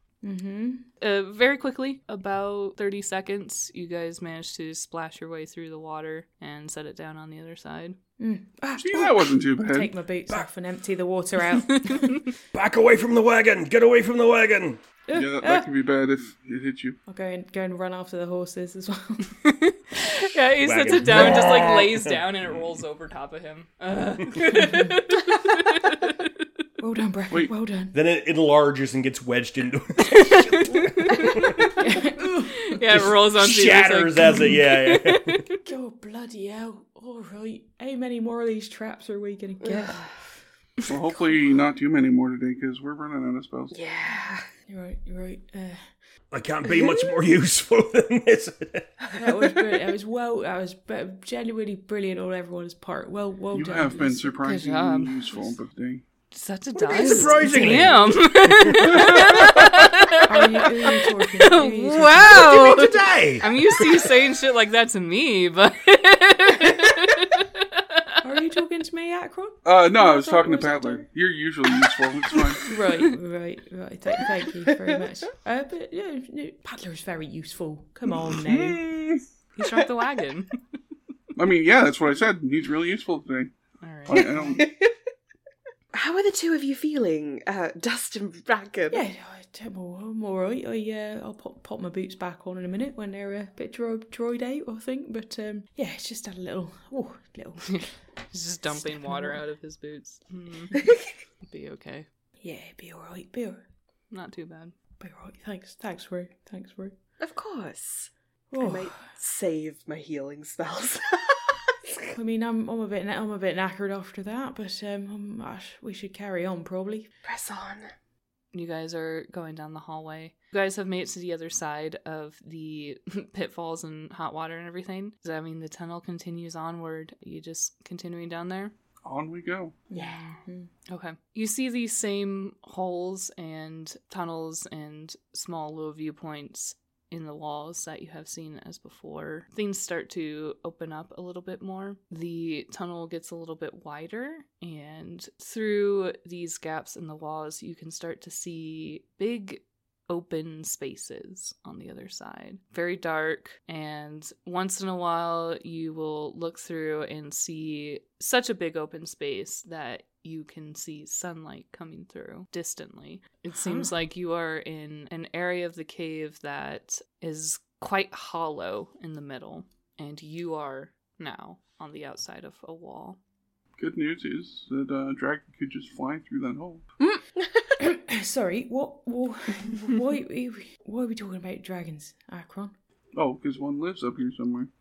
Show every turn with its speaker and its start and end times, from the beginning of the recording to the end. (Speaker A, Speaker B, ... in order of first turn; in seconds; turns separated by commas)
Speaker A: 0.2-0.9, Speaker B: 1.0-8.0, Speaker A: 8.2-12.3, Speaker C: 8.8-9.9, Speaker D: 12.5-14.8, Speaker A: 15.1-15.7, Speaker C: 15.1-17.0, Speaker A: 17.1-19.4, Speaker B: 19.4-26.3, Speaker D: 20.6-22.3, Speaker A: 24.5-25.0, Speaker A: 26.8-27.9, Speaker D: 27.9-31.8, Speaker B: 30.9-31.3, Speaker A: 31.2-32.8, Speaker B: 31.8-35.6, Speaker D: 32.9-35.4, Speaker A: 35.6-40.1, Speaker E: 39.6-40.1, Speaker C: 40.9-43.8, Speaker E: 43.7-44.5, Speaker A: 44.1-45.8, Speaker D: 46.3-48.9, Speaker E: 49.1-49.5, Speaker A: 49.1-54.4, Speaker C: 53.5-56.0, Speaker B: 54.4-55.5, Speaker B: 56.3-68.2, Speaker D: 56.9-59.5, Speaker A: 57.0-57.8, Speaker A: 60.2-62.4, Speaker D: 62.0-64.1, Speaker A: 68.2-71.0, Speaker C: 69.6-72.7, Speaker A: 72.7-78.8, Speaker C: 78.2-79.2, Speaker B: 79.5-80.5, Speaker C: 81.3-83.5, Speaker B: 83.8-84.6, Speaker C: 84.0-84.7, Speaker E: 84.2-84.9, Speaker E: 85.9-89.0, Speaker A: 88.9-98.0, Speaker B: 97.7-100.8, Speaker A: 98.7-99.4, Speaker B: 101.5-102.0, Speaker A: 102.4-103.6, Speaker B: 104.1-104.7, Speaker A: 105.0-106.9, Speaker E: 107.2-112.1, Speaker A: 108.5-109.1, Speaker A: 112.1-117.1, Speaker E: 117.2-117.9, Speaker B: 118.5-128.7, Speaker C: 129.0-129.8, Speaker A: 129.9-130.7, Speaker E: 129.9-130.3, Speaker B: 130.9-173.2, Speaker C: 173.8-176.8, Speaker A: 177.8-182.7, Speaker C: 183.1-184.7